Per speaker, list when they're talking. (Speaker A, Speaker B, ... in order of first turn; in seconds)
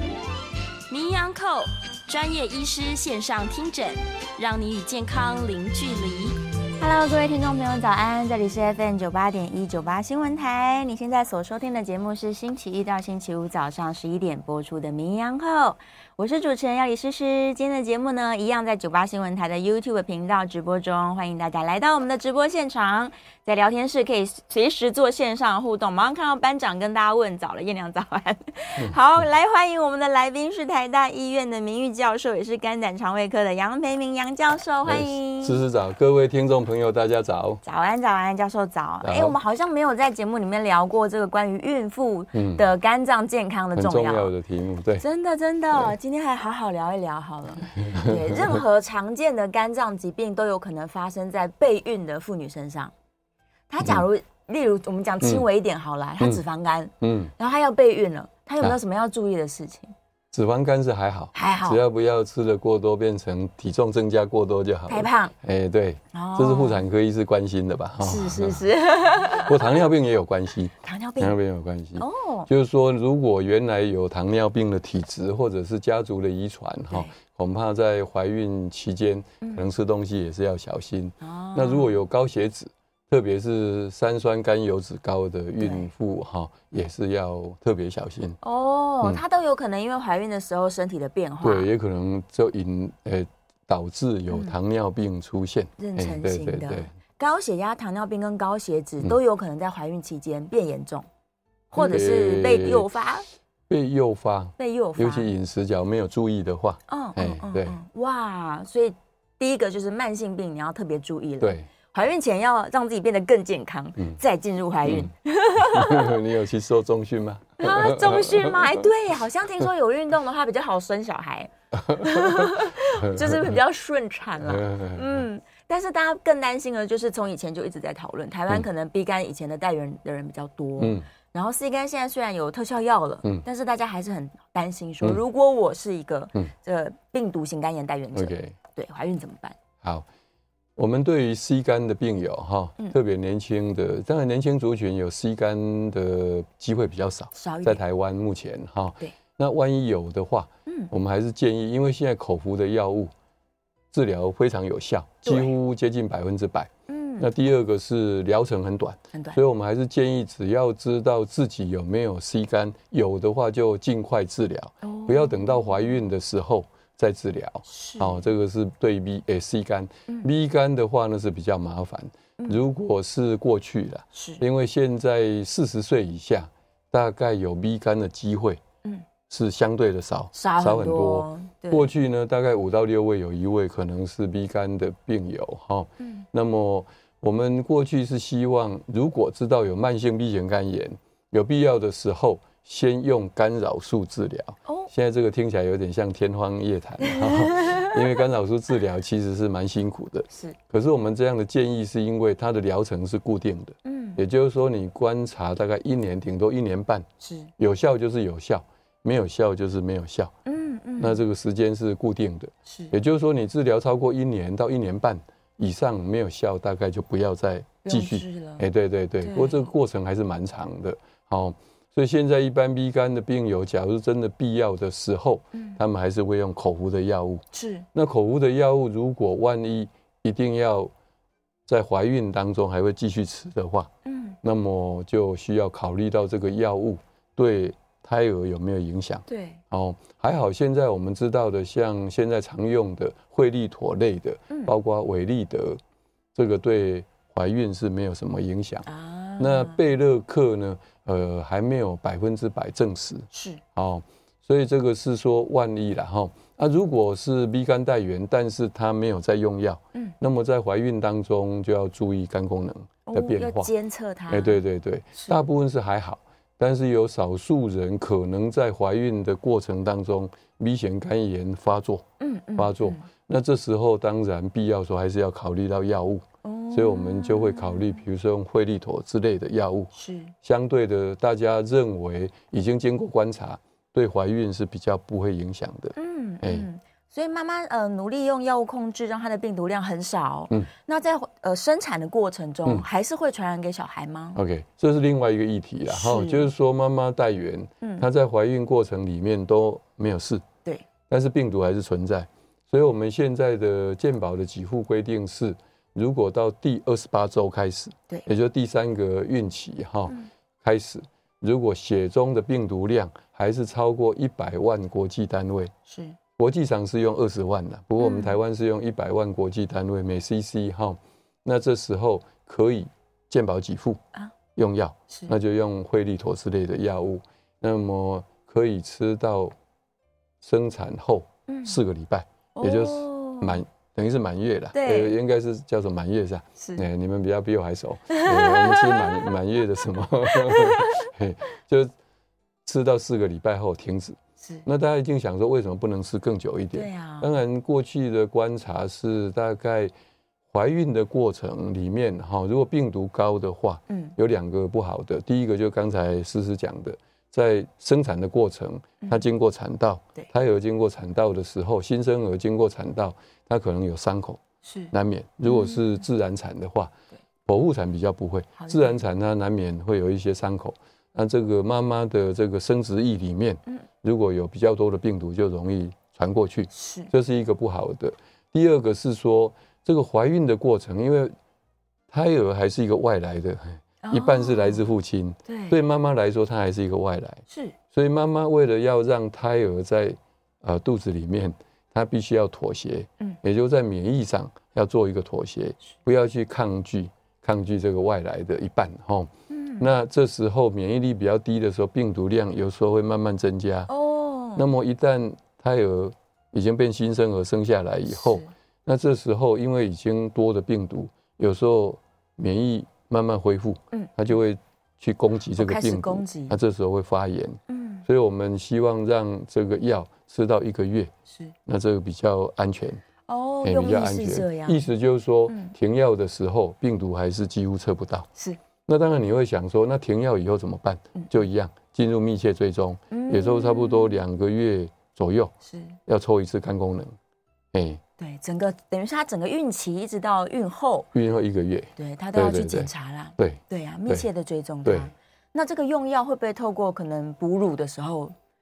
Speaker A: 0.9-6.4
Speaker B: 6.8-35.6, 37.6-44.3, 45.0-52.9, 53.7-59.9, 61.3-61.8, 64.9-65.3, 66.1-66.8, 68.0-69.8, 70.8-71.4, 72.0-72.5, 79.4-79.7, 81.2-82.0, 85.6-85.9, 88.4-91.7, 94.3-94.5, 95.8-101.1, 101.7-103.3, 104.6-105.3, 106.9-116.1, 117.6-139.6, 147.3-147.8, 155.2-155.5, 156.9-157.3, 159.1-159.4, 164.8-166.0, 167.7-168.3, 174.1-174.4, 180.3-181.9, 186.0-186.2, 194.7-194.9, 197.0-198.0, 200.3-200.6, 203.8-204.2, 207.2-207.5, 210.5-211.2, 212.7-212.9, 217.8-218.7, 219.2-219.7, 225.5-225.8, 227.5-227.9, 234.1-234.4, 239.3-239.6, 248.9-249.8, 253.3-253.6, 263.1-264.6, 272.2-273.1, 276.4-278.0, 279.9-280.3, 286.0-294.4, 295.9-296.5, 297.8-298.1, 315.9-316.2, 318.0-318.4, 325.1-325.3, 331.5-331.8, 332.6-333.6, 334.7-335.2, 336.6-336.9, 338.1-339.4, 340.3-341.1, 344.4-344.7, 346.7-347.4, 353.9-354.1, 364.6-364.9, 365.4-366.0, 368.6-369.0, 376.7-377.1, 384.0-384.8, 385.5-385.8, 387.5-387.8, 399.5-399.9, 403.9-404.7, 408.1-408.5, 415.6-416.6, 417.7-418.1, 421.3-421.5, 423.3-424.9, 425.5-425.7, 433.1-434.2, 435.6-436.0, 438.2-441.1, 442.0-448.3
Speaker C: 34.9-37.6, 39.0-39.4, 42.3-42.6, 43.8-45.0, 47.8-48.6, 55.2-55.5, 57.0-57.3, 60.3-88.4, 91.4-96.9, 101.7-102.9, 103.7-107.8, 111.4-111.7, 114.9-118.9, 121.7-123.6, 124.5-125.2, 130.8-131.1, 138.1-138.6, 140.8-153.1, 153.9-178.6, 179.3-207.1, 207.6-210.3, 211.0-230.9, 231.7-233.9, 234.4-245.8, 246.3-248.9, 249.4-263.7, 264.3-272.1, 272.6-279.9, 280.4-286.7, 294.4-300.4, 301.1-315.7, 316.4-324.0, 324.6-329.6, 330.4-341.9, 342.6-349.9, 350.5-364.4, 364.9-366.9, 367.5-381.3, 382.1-403.9, 404.6-421.1, 421.7-423.0, 423.6-428.3, 428.9-435.5, 436.1-437.2, 437.7-438.0, 441.1-444.3, 444.9-445.1